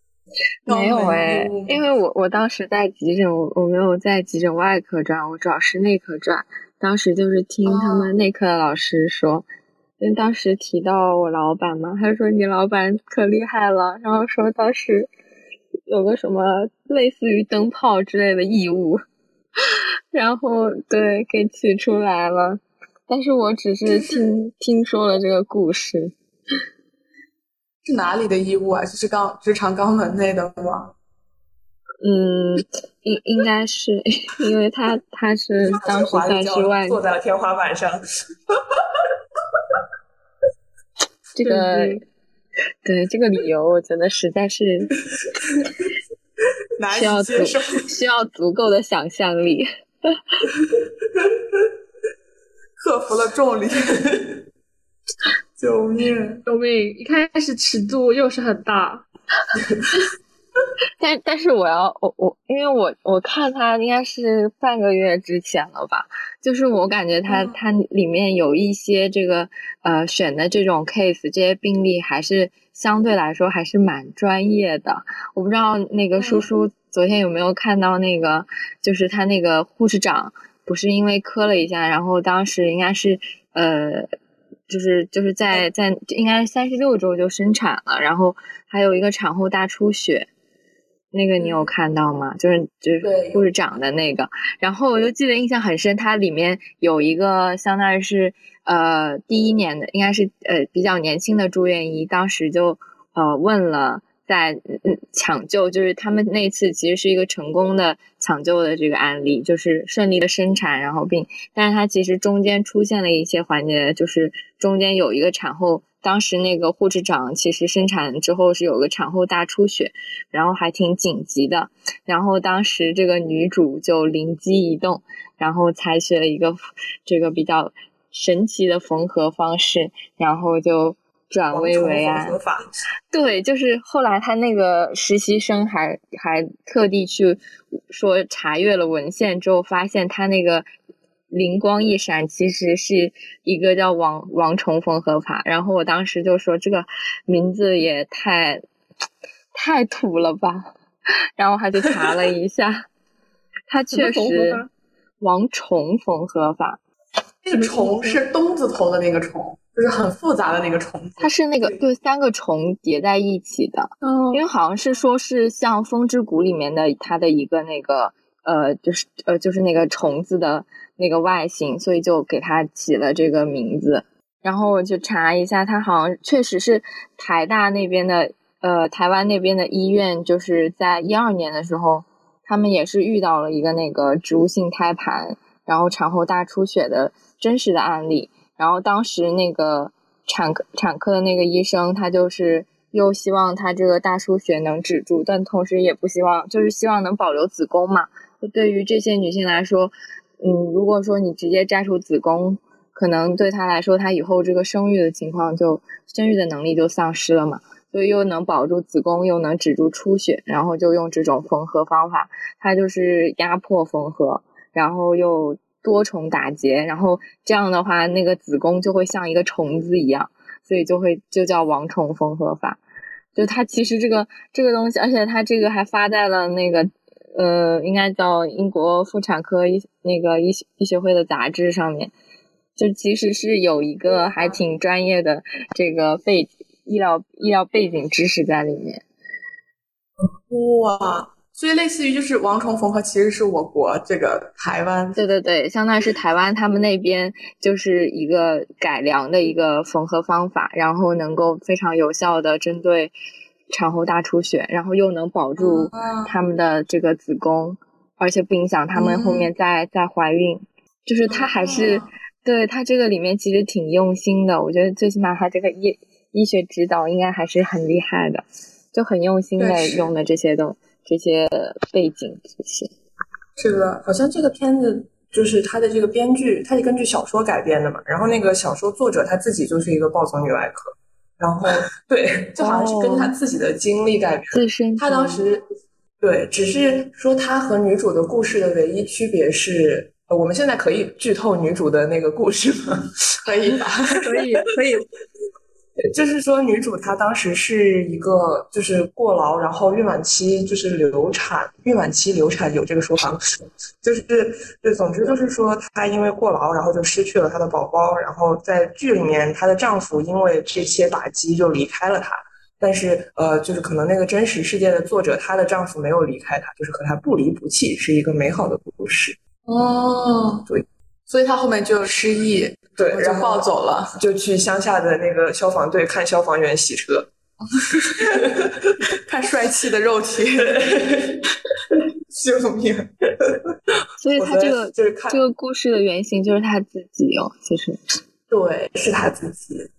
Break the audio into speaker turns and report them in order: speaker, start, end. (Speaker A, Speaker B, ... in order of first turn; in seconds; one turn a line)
Speaker A: 0.7-1.8
Speaker B: 0.7-9.5
Speaker A: 7.6-8.1
Speaker B: 10.0-15.1
Speaker B: 15.9-19.0
Speaker B: 20.1-26.1
Speaker A: 27.8-30.9
Speaker B: 32.0-37.0
Speaker C: 35.6-38.0
Speaker B: 41.3-42.0
Speaker D: 41.4-42.0
Speaker B: 42.8-44.9
Speaker A: 46.8-47.8
Speaker B: 46.9-50.2
Speaker A: 52.8-54.0
Speaker A: 55.6-56.4
Speaker D: 56.5-59.0
Speaker B: 61.0-84.1
Speaker B: 84.7-90.3
Speaker B: 91.1-132.4
Speaker C: 93.0-93.5
Speaker C: 131.5-132.8
Speaker B: 133.1-140.7
Speaker B: 141.3-148.6
Speaker B: 149.5-150.7
Speaker B: 151.4-152.8
Speaker B: 153.7-154.6
Speaker D: 153.9-154.7
Speaker B: 155.2-156.8
Speaker A: 157.4-161.8
Speaker D: 157.5-158.2
Speaker B: 161.2-222.8
Speaker D: 164.0-164.4
Speaker B: 223.3-232.1
Speaker B: 232.8-239.0
Speaker A: 240.5-245.2
Speaker B: 245.2-253.1
Speaker B: 253.7-272.9
Speaker A: 255.6-256.3
Speaker A: 258.9-259.4
Speaker A: 261.3-262.0
Speaker A: 269.6-270.1
Speaker A: 273.6-274.0
Speaker C: 274.0-285.6
Speaker B: 282.6-283.4
Speaker B: 284.5-285.4
Speaker C: 286.2-293.1
Speaker A: 293.4-294.2
Speaker D: 294.2-295.0
Speaker C: 296.1-319.4
Speaker A: 319.7-320.6
Speaker A: 321.3-324.2
Speaker C: 323.0-327.3
Speaker C: 328.1-328.9
Speaker A: 328.2-328.5
Speaker A: 329.2-330.8
Speaker C: 330.6-331.4
Speaker A: 332.4-333.1
Speaker B: 334.2-338.0
Speaker C: 334.3-335.4
Speaker A: 338.5-339.0
Speaker C: 338.5-339.9